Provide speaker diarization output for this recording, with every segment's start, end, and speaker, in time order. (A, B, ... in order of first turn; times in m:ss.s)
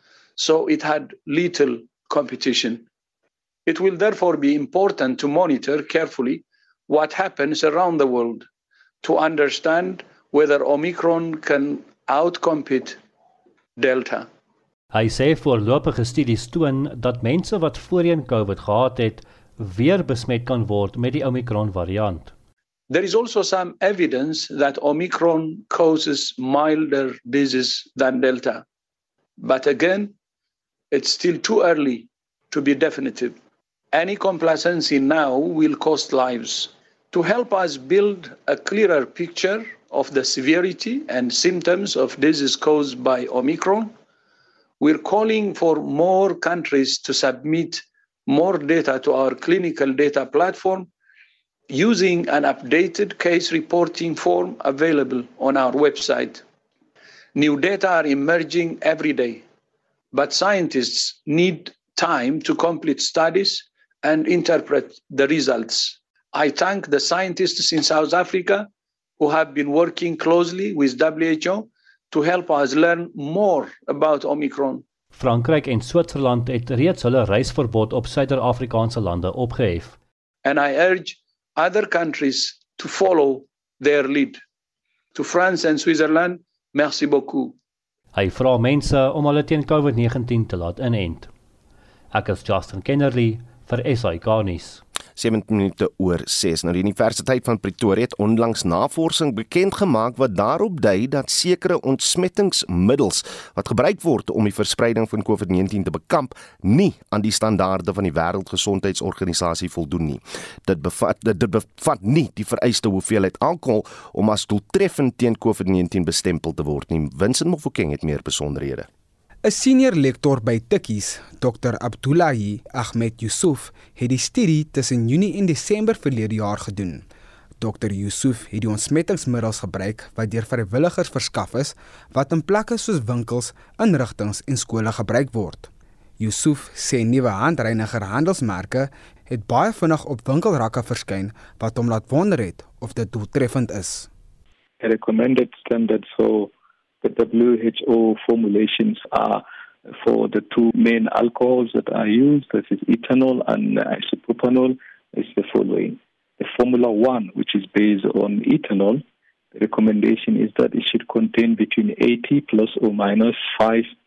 0:00.4-0:02.9 A
0:03.7-0:08.5 A
0:09.0-0:13.0 A
0:13.8-0:14.3 A
0:14.9-0:22.3 B
0:22.9-0:28.6 A
0:29.4-0:30.1 A
0:30.9-0:33.4 A
0:33.9-0:43.9 A
0:44.8-0:50.9 A
0:51.7-0:56.4 A
0:57.4-0:59.4 A
1:00.1-1:14.8 A
1:15.1-1:20.0 B
1:20.4-1:24.4 A
1:25.2-1:27.6 A
1:28.1-1:31.3 B
1:32.1-1:34.8 B
1:35.2-1:58.9 C
1:59.4-2:07.1 D
2:07.6-2:24.1 D
2:24.8-2:39.0 E
2:39.5-2:43.9 E